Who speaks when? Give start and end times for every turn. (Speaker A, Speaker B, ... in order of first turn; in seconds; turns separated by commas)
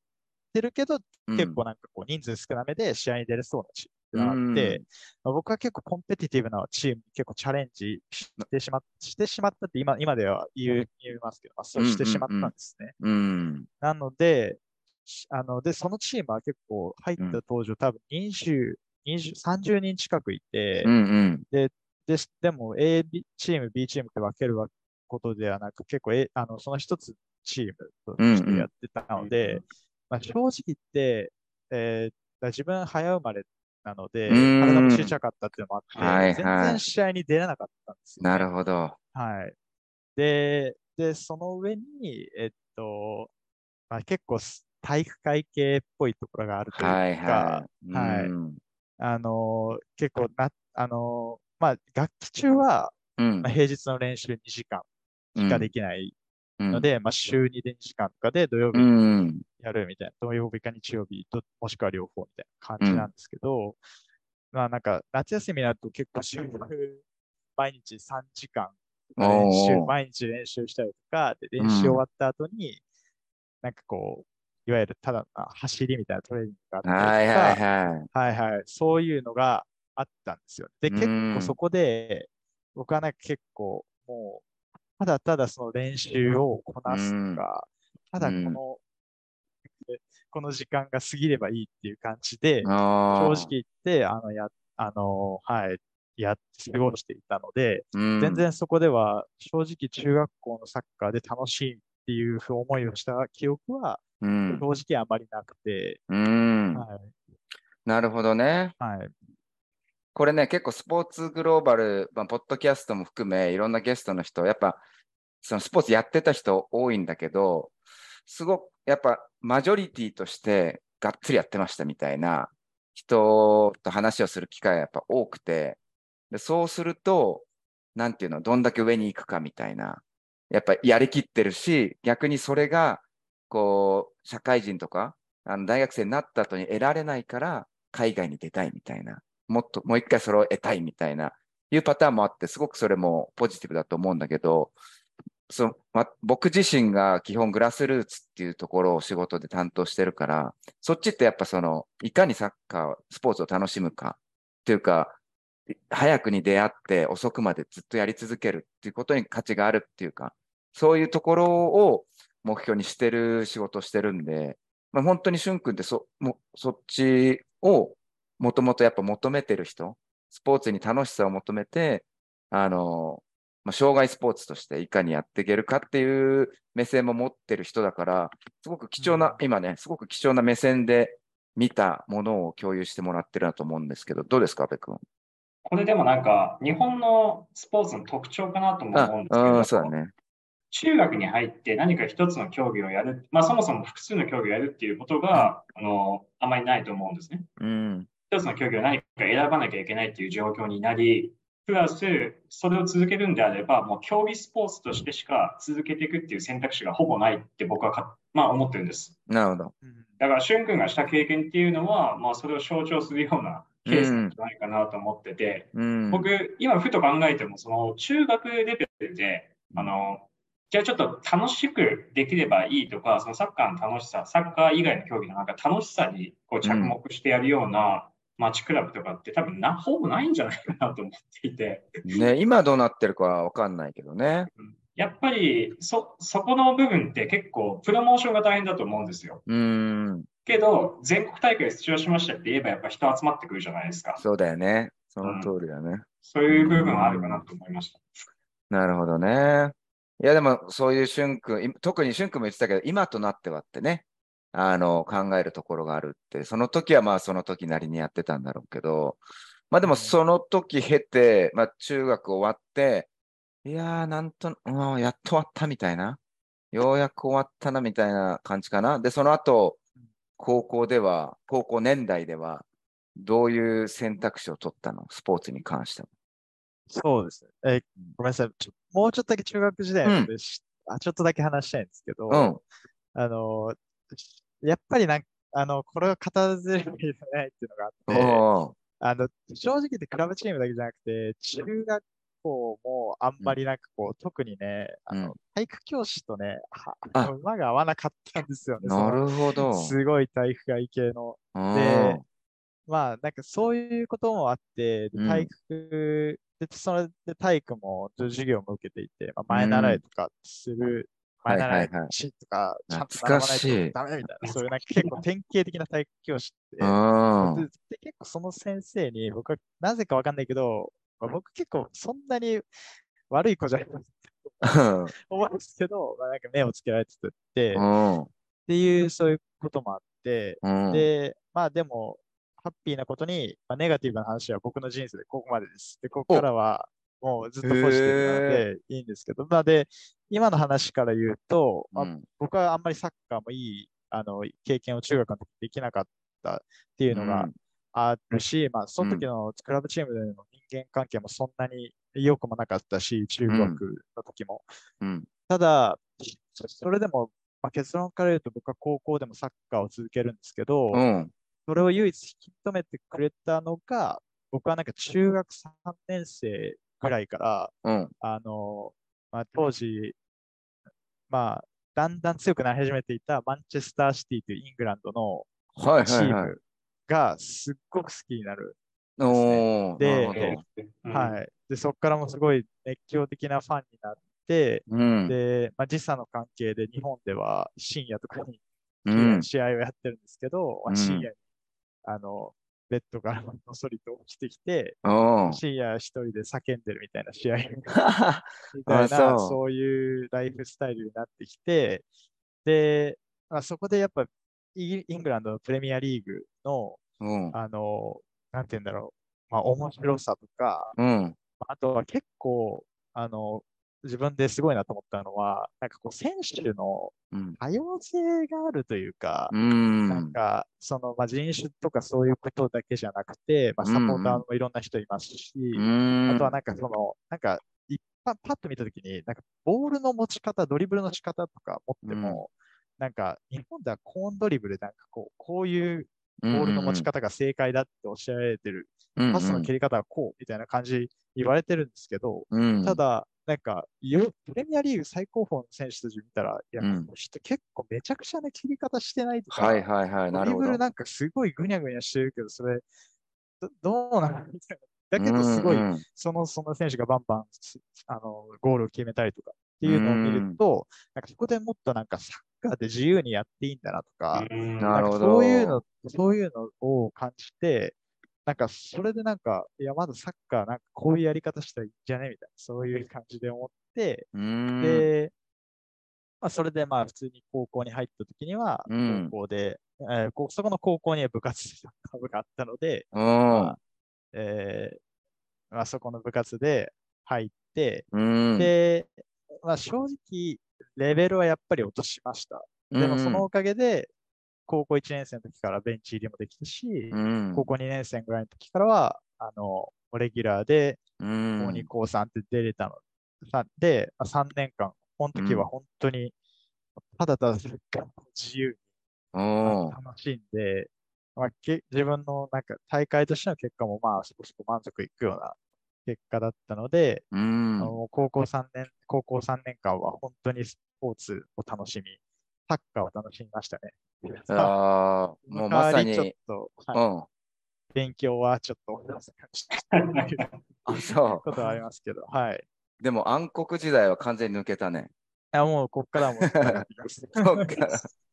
Speaker A: 0.5-12.9, Speaker B: 1.3-1.6, Speaker B: 4.1-4.8, Speaker B: 11.8-13.7, Speaker A: 13.8-20.9, Speaker B: 20.8-21.4, Speaker A: 21.5-38.5, Speaker B: 28.2-28.7, Speaker C: 29.1-29.6, Speaker B: 34.3-35.1, Speaker C: 35.9-36.2, Speaker B: 36.0-36.8, Speaker B: 38.2-39.0, Speaker A: 39.1-39.5, Speaker A: 40.1-43.3, Speaker A: 43.9-48.3, Speaker B: 46.8-48.6, Speaker A: 49.0-56.1, Speaker B: 53.2-53.5, Speaker B: 55.3-55.7, Speaker B: 56.6-56.9, Speaker A: 56.7-58.9, Speaker B: 58.7-59.4, Speaker A: 59.6-63.8, Speaker B: 62.8-63.1, Speaker A: 64.5-67.0, Speaker A: 67.5-72.8, Speaker B: 69.2-69.9, Speaker B: 71.6-72.0, Speaker A: 73.6-84.4, Speaker B: 76.8-78.1, Speaker B: 80.9-81.5, Speaker A: 85.0-88.8, Speaker B: 86.8-87.4, Speaker B: 88.2-88.6, Speaker A: 89.8-106.0, Speaker B: 92.6-93.5, Speaker B: 97.9-98.4, Speaker B: 104.2-104.6, Speaker B: 106.1-106.8, Speaker A: 106.7-107.2, Speaker B: 107.8-108.8, Speaker A: 108.8-109.1, Speaker B: 110.1-114.8, Speaker B: 115.4-117.7, Speaker B: 118.2-125.8, Speaker B: 126.3-127.4, Speaker B: 128.0-144.7, Speaker B: 145.5-155.2, Speaker B: 155.7-185.0, Speaker A: 179.0-179.4, Speaker C: 185.6-189.9, Speaker B: 188.9-190.1, Speaker C: 190.7-197.4, Speaker B: 197.6-198.1, Speaker C: 198.3-209.2, Speaker B: 209.3-209.7, Speaker A: 209.8-210.2, Speaker C: 210.2-232.2, Speaker B: 213.8-214.3, Speaker B: 215.7-216.3, Speaker B: 226.6-227.0, Speaker B: 232.0-234.5, Speaker C: 234.6-239.4, Speaker B: 239.5-240.3, Speaker C: 240.4-244.2, Speaker B: 244.2-247.4, Speaker C: 245.2-245.5, Speaker C: 246.2-248.0, Speaker B: 248.7-259.2, Speaker B: 259.7-263.1, Speaker A: 259.8-260.1, Speaker B: 263.6-266.2, Speaker B: 266.7-269.8, Speaker B: 270.4-272.6, Speaker B: 273.2-276.1, Speaker A: 276.9-282.5, Speaker B: 280.0-280.3, Speaker B: 282.3-282.6, Speaker A: 283.1-288.4, Speaker B: 288.1-288.7, Speaker A: 289.0-302.2, Speaker B: 295.1-295.4, Speaker B: 298.8-299.9, Speaker B: 301.5-302.2, Speaker A: 302.9-322.6, Speaker B: 305.1-305.5, Speaker B: 309.5-310.0, Speaker B: 311.5-312.1, Speaker B: 312.9-313.9, Speaker C: 314.4-315.2, Speaker B: 316.8-317.7, Speaker A: 323.3-327.8, Speaker B: 324.6-325.1, Speaker B: 327.7-328.3, Speaker A: 328.7-354.6, Speaker B: 330.6-331.1, Speaker B: 337.6-338.6, Speaker B: 341.9-342.2, Speaker B: 347.1-347.5, Speaker B: 349.0-349.3, Speaker B: 353.4-353.8, Speaker B: 355.0-355.3, Speaker A: 355.5-361.0, Speaker B: 360.9-361.3, Speaker A: 361.6-370.1, Speaker B: 367.8-368.1, Speaker A: 371.3-375.5, Speaker B: 375.8-376.5, Speaker A: 376.0-378.8, Speaker B: 379.2-380.6, Speaker A: 379.3-391.4, Speaker C: 380.3-381.4, Speaker B: 384.9-385.3, Speaker B: 389.1-389.5, Speaker B: 390.9-391.3, Speaker A: 392.0-398.0, Speaker B: 395.0-395.6, Speaker B: 397.9-399.6, Speaker A: 398.7-402.0, Speaker A: 402.6-407.0, Speaker B: 407.2-407.6, Speaker A: 407.5-410.9, Speaker B: 410.9-411.4, Speaker A: 411.6-419.5, Speaker B: 417.3-417.6, Speaker B: 419.5-420.3, Speaker A: 420.1-452.8, Speaker B: 423.8-424.4, Speaker B: 425.7-426.6, Speaker B: 432.0-432.4, Speaker B: 436.4-437.1, Speaker B: 439.2-439.7, Speaker B: 442.5-443.0, Speaker B: 446.8-447.1, Speaker B: 449.5-450.8, Speaker A: 453.6-467.9, Speaker B: 455.2-456.0, Speaker B: 459.8-460.6, Speaker C: 464.3-465.1, Speaker B: 464.8-465.8, Speaker A: 468.4-475.3, Speaker B: 474.3-475.1, Speaker A: 476.4-483.8, Speaker B: 478.9-479.3, Speaker B: 483.1-483.8, Speaker A: 484.3-485.0, Speaker A: 485.7-494.1, Speaker B: 488.1-488.7, Speaker B: 492.9-493.5, Speaker A: 494.7-501.0, Speaker B: 497.1-497.7, Speaker B: 501.2-501.9, Speaker A: 501.6-506.3, Speaker B: 505.3-505.7, Speaker A: 507.1-508.8, Speaker B: 509.3-509.9, Speaker A: 509.6-517.2, Speaker B: 517.3-517.9, Speaker A: 517.8-524.8, Speaker B: 524.5-526.3, Speaker A: 525.5-527.0, Speaker B: 526.9-527.3, Speaker A: 527.9-530.4, Speaker C: 529.8-530.5, Speaker B: 530.9-531.4, Speaker A: 531.4-532.6, Speaker B: 533.0-535.1, Speaker A: 535.5-537.7, Speaker B: 536.4-536.8, Speaker B: 537.4-538.1